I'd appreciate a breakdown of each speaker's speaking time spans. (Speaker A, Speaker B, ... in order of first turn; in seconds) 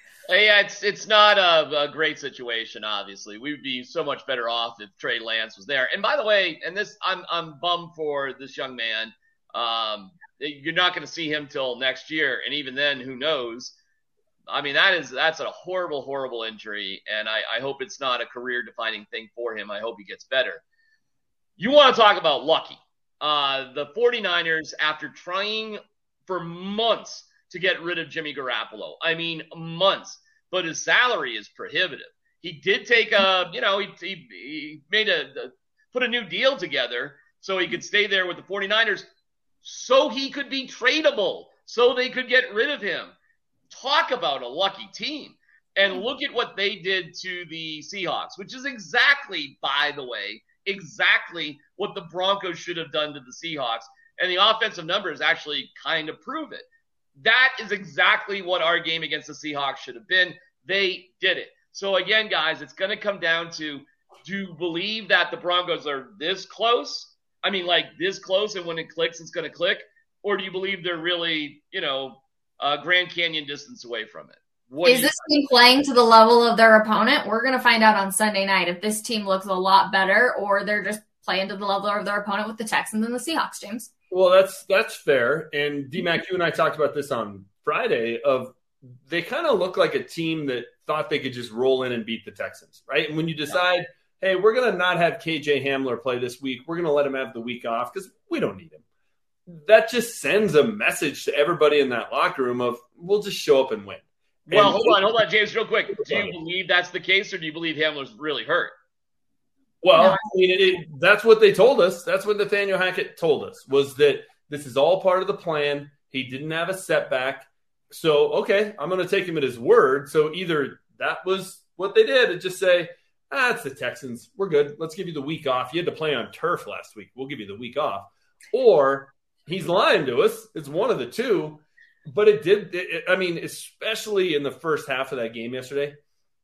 Speaker A: 0.3-13.7, 14.5-20.6, 21.6-39.1, 39.6-43.1, 43.7-56.6, 57.2-75.2, 104.5-108.7
Speaker B: 74.8-83.9, 110.0-110.2
Speaker C: 84.1-98.8, 99.5-105.0, 106.0-106.3, 109.8-136.0